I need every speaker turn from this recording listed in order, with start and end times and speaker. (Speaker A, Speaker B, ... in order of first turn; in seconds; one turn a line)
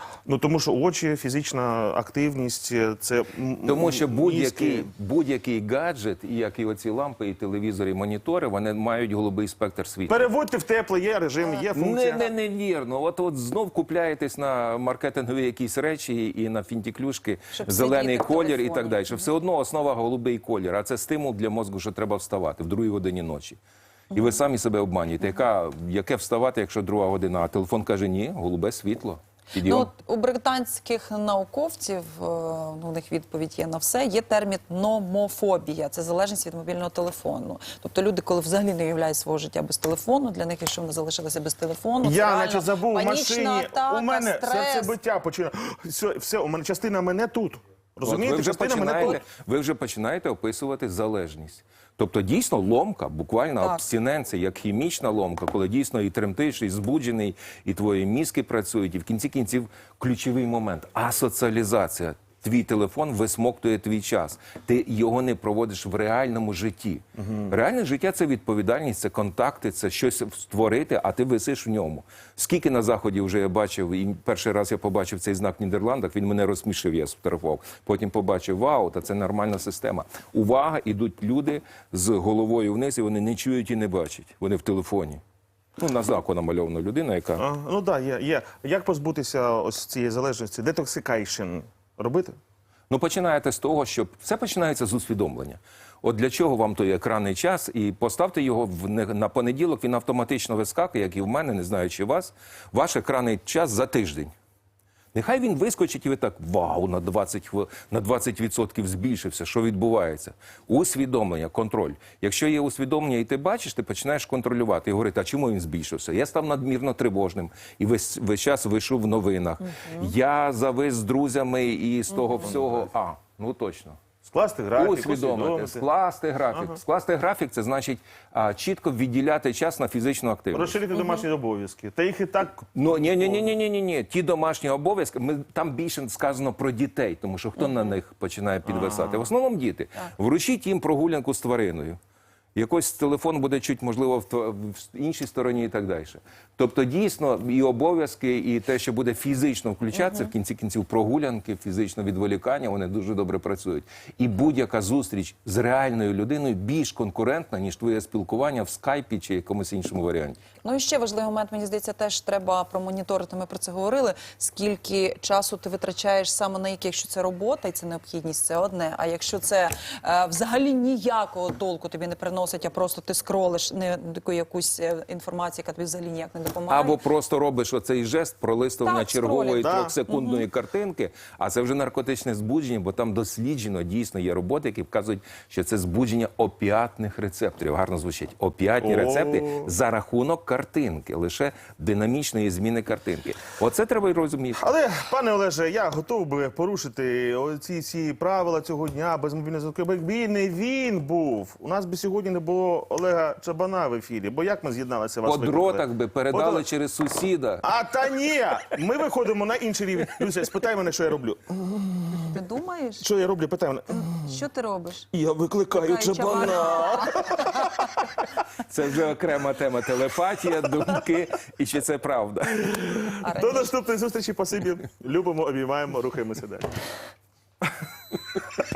Speaker A: 0.2-4.9
Speaker B: 3.6-10.2
Speaker A: 10.1-12.2
Speaker B: 11.7-23.6
Speaker C: 17.5-19.3
Speaker C: 24.1-24.4
Speaker B: 24.1-29.9
Speaker C: 29.6-44.9
Speaker A: 42.0-49.2
Speaker B: 48.0-85.2
Speaker A: 67.2-67.5
Speaker B: 85.8-87.4
Speaker A: 87.4-92.3
Speaker B: 92.9-104.3
Speaker B: 105.1-124.0
Speaker C: 119.7-120.0
Speaker A: 122.4-122.9
Speaker A: 124.2-125.8
Speaker B: 124.8-130.8
Speaker A: 126.5-126.8
Speaker A: 130.5-133.5
Speaker C: 130.9-131.2
Speaker B: 132.7-142.0
Speaker A: 138.6-139.3
Speaker B: 142.5-160.4
Speaker C: 149.9-150.3
Speaker C: 160.6-177.0
Speaker B: 176.7-194.6
Speaker C: 178.8-180.4
Speaker A: 179.6-180.0
Speaker A: 188.8-189.7
Speaker A: 194.5-206.7
Speaker B: 205.2-207.7
Speaker A: 207.6-212.3
Speaker C: 212.1-213.1
Speaker A: 213.0-214.3
Speaker C: 213.9-215.1
Speaker A: 215.1-218.0
Speaker C: 215.8-217.8
Speaker B: 218.6-222.9
Speaker A: 222.6-226.7
Speaker C: 223.2-223.7